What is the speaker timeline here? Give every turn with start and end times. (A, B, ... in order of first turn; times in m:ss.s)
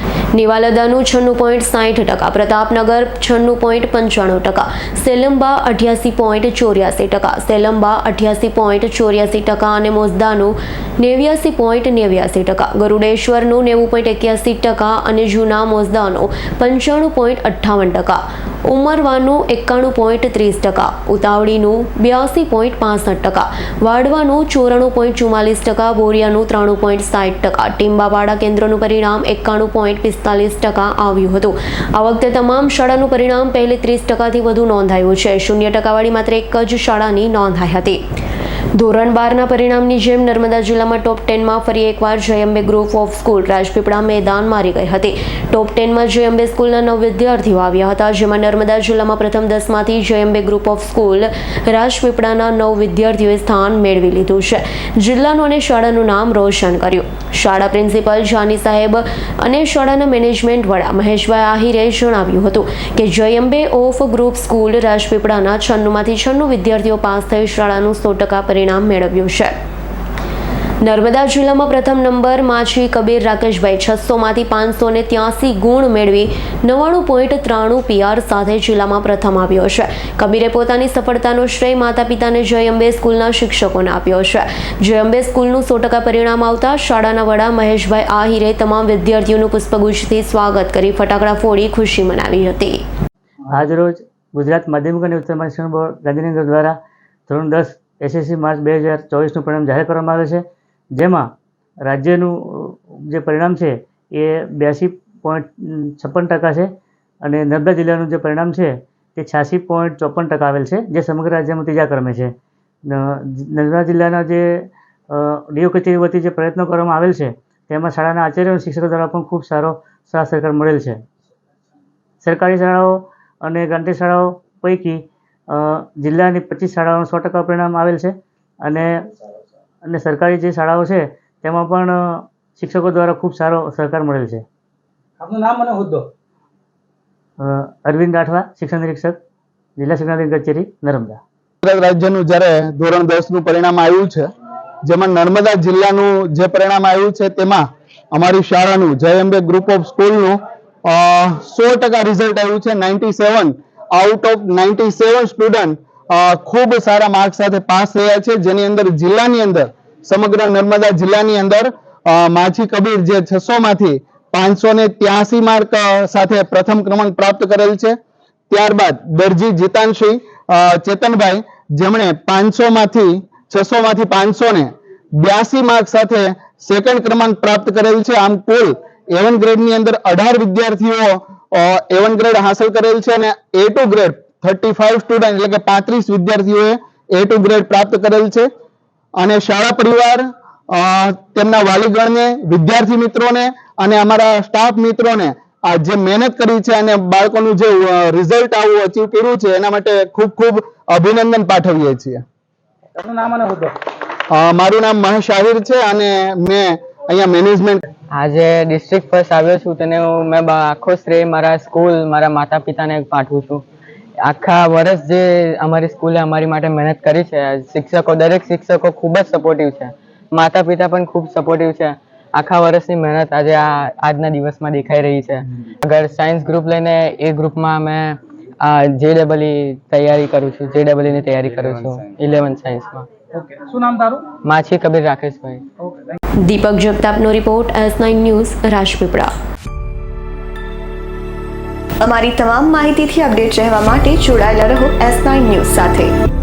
0:00.3-0:38.0 A
0:38.7-1:09.5 A
1:10.8-1:32.8 A
1:33.5-1:36.8 B
1:37.3-1:40.4 B
1:41.0-1:41.3 B
1:41.8-1:46.7 B
1:47.2-1:52.3 B
1:52.9-2:01.0 B
2:02.2-2:08.9 B
2:09.8-2:14.4 B
2:15.2-2:16.1 C
2:17.4-2:19.2 B
2:19.8-2:21.2 B
2:21.6-2:24.2 D
2:24.8-2:48.0 D
2:48.5-3:08.5 D
3:09.2-3:22.2 D
3:23.0-3:23.7 C
3:24.3-3:27.8 D
3:28.1-3:33.6 E
3:34.2-3:53.1 E
3:53.3-3:54.3 C
3:54.4-3:55.6 E
3:55.8-3:56.2 C
3:56.4-3:59.3 A
4:02.0-4:06.1 F